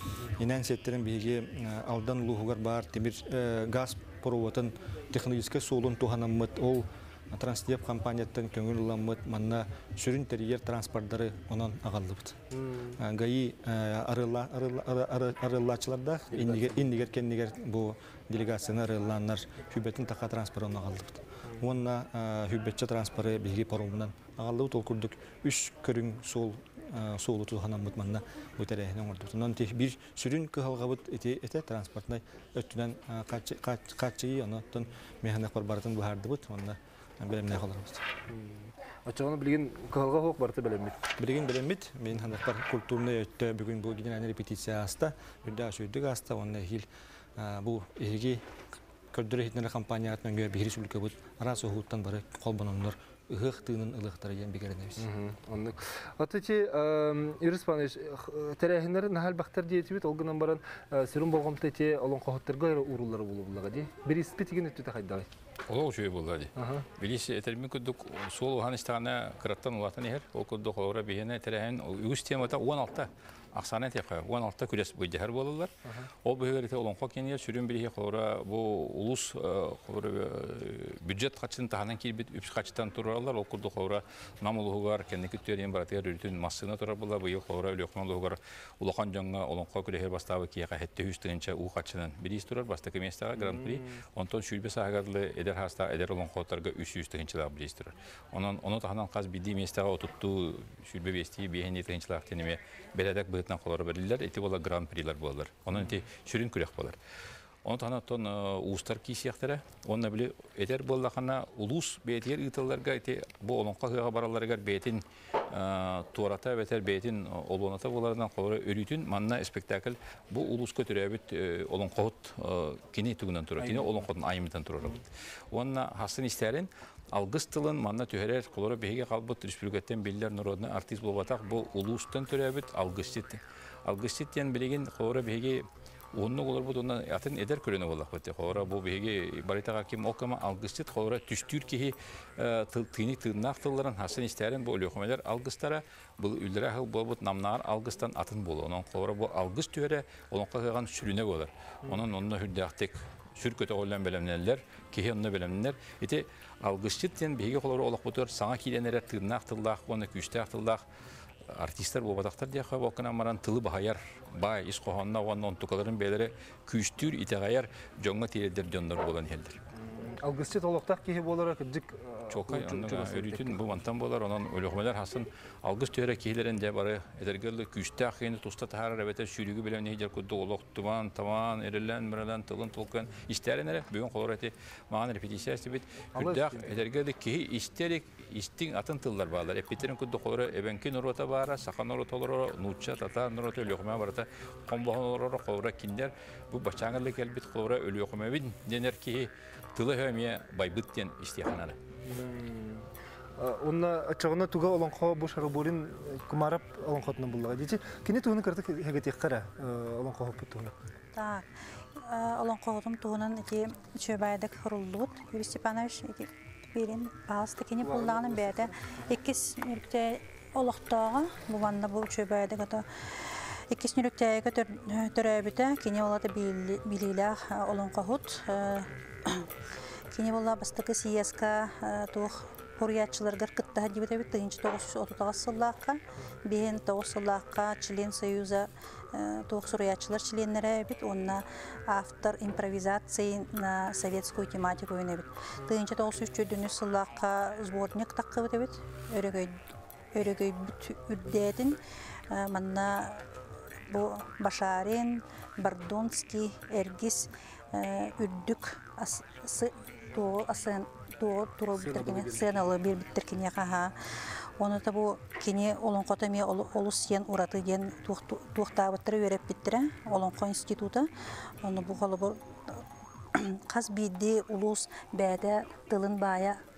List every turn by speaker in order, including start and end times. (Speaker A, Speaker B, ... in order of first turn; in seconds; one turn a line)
Speaker A: 0.3-12.4
Speaker B: 12.5-13.0
Speaker A: 13.0-38.1
Speaker B: 16.3-16.8
Speaker B: 38.3-41.0
Speaker A: 41.2-48.4
Speaker A: 49.1-55.1
Speaker B: 55.0-65.3
Speaker C: 65.7-75.7
Speaker B: 66.5-66.9
Speaker C: 76.2-107.0
Speaker B: 93.3-94.0
Speaker C: 107.6-160.8
Speaker B: 123.6-124.0
Speaker C: 161.5-169.6
Speaker B: 169.7-173.7
Speaker C: 172.3-201.8
Speaker B: 186.2-186.8
Speaker B: 202.0-210.7
Speaker D: 211.1-211.4
Speaker D: 212.0-222.8
Speaker B: 217.8-218.7
Speaker D: 223.7-229.5
Speaker D: 230.1-249.6
Speaker D: 250.1-253.2
Speaker D: 253.9-263.9
Speaker B: 261.7-262.6
Speaker D: 264.6-271.1
Speaker D: 271.6-272.8
Speaker D: 273.3-276.6